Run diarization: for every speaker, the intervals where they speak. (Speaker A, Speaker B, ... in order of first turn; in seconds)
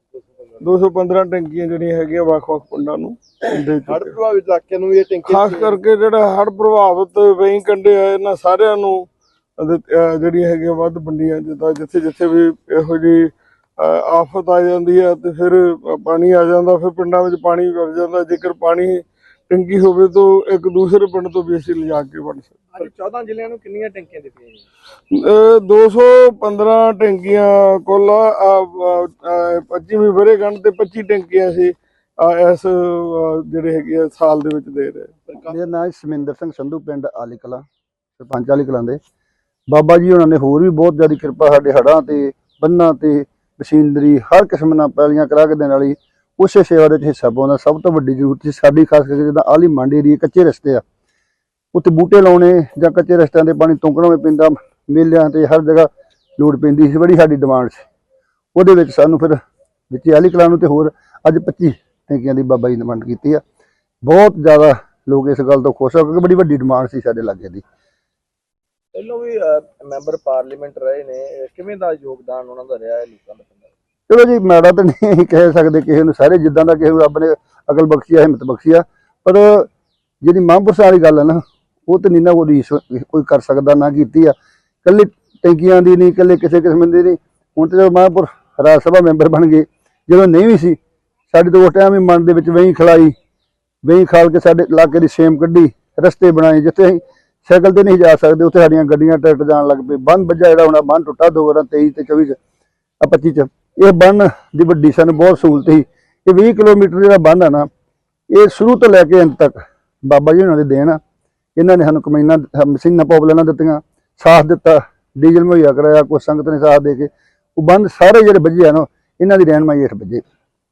Speaker A: 0.1-0.6, 3.9-5.8, 22.8-24.6, 68.9-73.7
Speaker B: 0.6-4.2, 5.3-22.9, 25.1-35.3
Speaker C: 35.5-37.6, 38.2-39.0, 39.7-50.8, 51.7-57.9, 58.5-59.4, 59.9-63.4, 64.0-67.6, 74.1-79.7, 80.2-84.3, 84.8-90.8, 91.3-93.1, 93.8-102.4, 103.0-107.7, 108.3-111.0, 111.6-120.2